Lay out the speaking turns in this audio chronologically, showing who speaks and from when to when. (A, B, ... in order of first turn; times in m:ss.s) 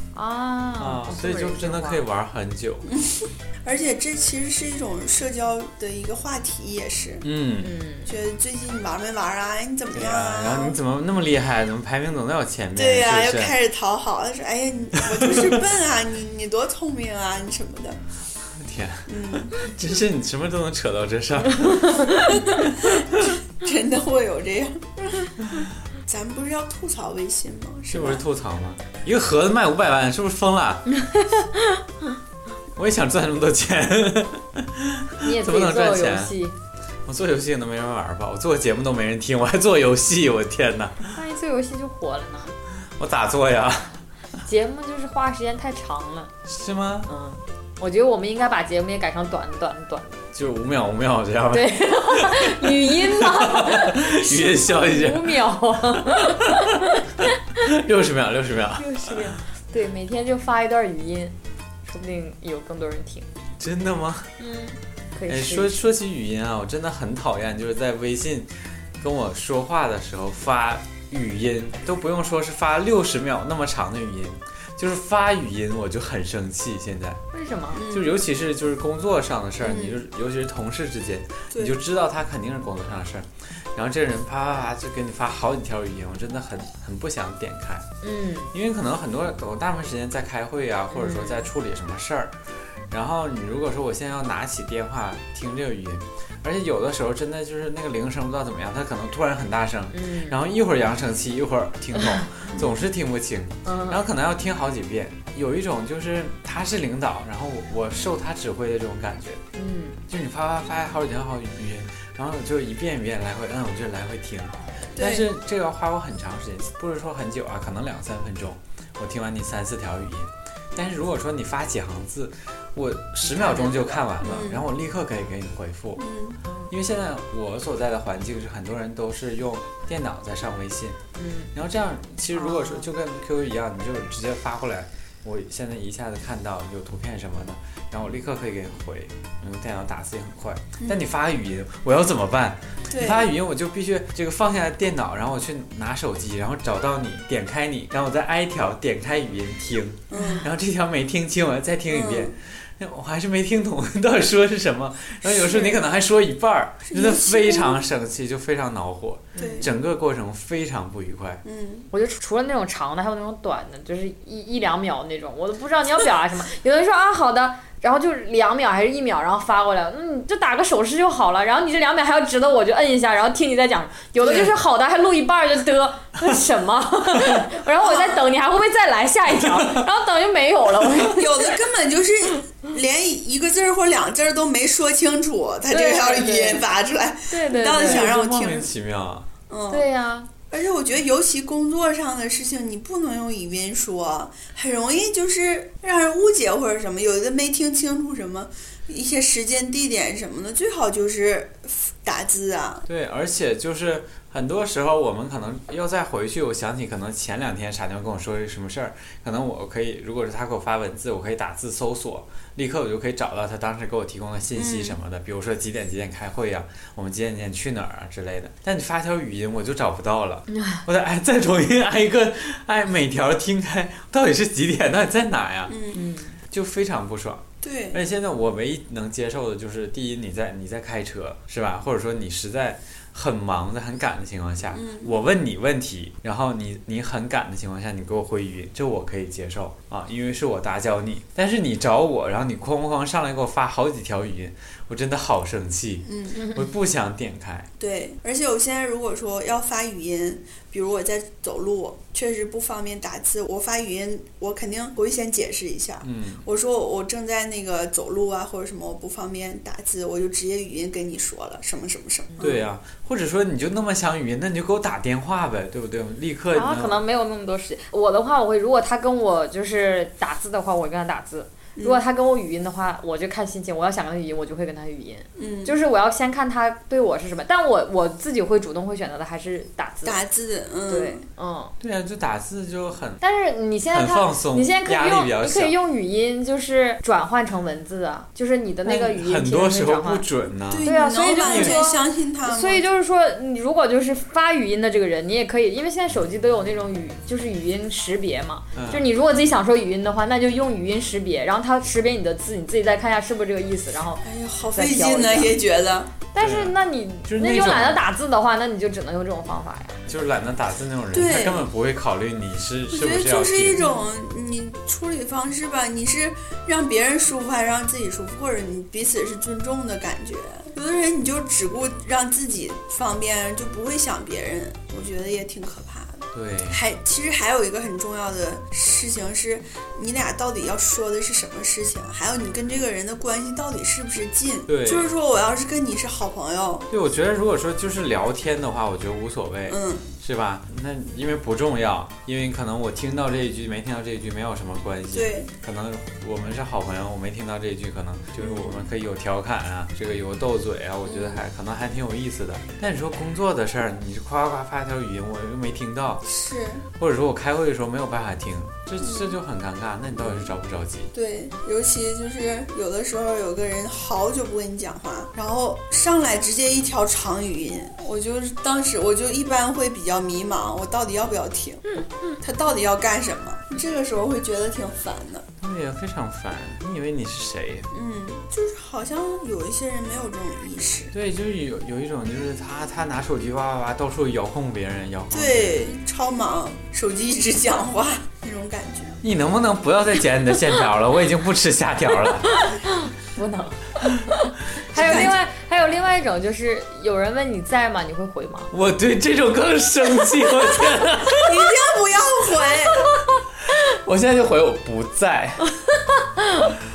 0:00.1-0:02.0 A
0:00.8-0:02.9 B
0:02.9-0:07.2 C
0:07.2-0:07.7 B
0:07.6-0:08.1 A
0:08.0-0:10.8 C
0:09.9-0:13.6 B
0:12.8-0:18.0 C
0:15.0-0:15.5 B
0:18.5-0:23.4 B
0:19.1-0:19.8 C
0:21.8-0:22.3 A
0:22.4-0:28.2 C
0:27.9-0:31.0 B
0:32.8-0:36.3 B
0:35.2-0:36.6 A
0:37.0-0:41.2 B
0:41.1-0:42.5 A
0:43.0-0:44.0 B
0:44.4-0:46.3 A
0:46.5-0:47.1 B
0:47.1-0:50.2 A
0:50.3-0:55.4 B
0:51.5-0:57.4 A
0:55.9-0:56.9 B
0:57.6-0:59.3 B
0:58.8-1:01.3 A
1:01.8-1:03.3 A
1:03.6-1:04.3 B
1:04.4-1:05.8 A
1:05.3-1:17.2 B
1:17.3-1:17.9 A
1:17.7-1:18.1 C
1:17.9-1:27.9 B
1:19.6-1:20.0 C
1:21.5-1:21.8 C
1:28.0-1:28.5 A
1:28.5-1:49.4 B
1:30.9-1:31.5 A
1:39.9-1:40.4 A
1:42.0-1:42.5 A
1:43.6-1:44.0 A
1:49.5-1:50.0 A
1:50.1-2:06.0 B
1:54.9-1:55.3 C
2:03.4-2:04.0 A
2:04.2-2:04.6 C
2:06.0-2:06.4 C
2:06.7-2:11.0 B
2:11.2-2:11.5 A
2:11.5-2:41.4 B
2:12.3-2:12.9 A
2:22.9-2:23.3 C
2:30.1-2:30.4 C
2:31.9-2:32.3 C
2:35.2-2:35.8 C
2:36.9-2:37.8 C
2:39.4-2:39.6 A
2:39.4-2:39.7 C
2:41.4-2:41.9 C
2:41.9-3:01.6 A
2:54.2-2:54.5 C
2:57.8-2:58.3 C
2:59.5-2:59.8 B
3:01.0-3:08.7 C
3:05.7-3:06.6 A
3:07.3-3:08.1 A
3:07.8-3:09.3 B
3:09.5-3:09.9 C
3:09.7-3:10.3 A
3:10.5-3:22.8 C
3:22.8-3:45.8 B
3:34.5-3:35.0 C
3:40.5-3:40.8 A
3:45.7-3:46.0 C
3:45.9-3:46.4 A
3:46.5-4:07.7 B
3:47.6-3:48.0 C
3:54.7-3:55.1 C
4:06.0-4:06.4 C
4:07.8-4:22.6 C
4:16.0-4:16.4 B
4:22.4-4:27.0 B
4:26.5-4:40.2 A
4:31.8-4:32.0 C
4:35.4-4:35.8 C
4:40.0-4:41.2 C
4:40.9-4:41.7 A
4:41.8-4:43.2 B
4:43.2-4:50.2 A
4:43.9-4:45.7 B
4:48.8-4:51.8 B
4:50.7-4:52.8 C
4:50.8-5:05.6 A
4:58.7-4:59.0 B
5:04.2-5:06.1 C
5:06.3-5:10.0 A
5:06.4-5:06.7 B
5:07.2-5:08.0 B
5:10.1-5:13.8 B
5:11.1-5:11.6 C
5:12.9-5:36.9 C
5:13.8-5:14.0 A
5:26.3-5:26.8 B
5:34.7-5:35.1 B
5:36.9-5:56.2 B
5:39.7-5:40.1 C
5:45.1-5:45.5 C
5:48.4-5:48.9 C
5:51.0-5:51.4 C
5:56.2-5:56.8 C
5:57.0-6:01.1 B
5:59.0-5:59.4 C
6:01.1-6:15.4 C
6:11.9-6:12.4 A
6:15.6-6:17.9 B
6:17.9-6:21.1 C
6:21.1-6:25.9 B
6:25.3-6:29.2 C
6:29.2-6:32.6 B
6:32.5-6:38.7 A
6:34.9-6:35.4 C
6:35.0-6:35.3 B
6:38.7-6:41.7 B
6:41.3-6:43.1 C
6:42.9-6:43.2 A
6:43.6-6:45.7 B
6:45.7-6:46.8 A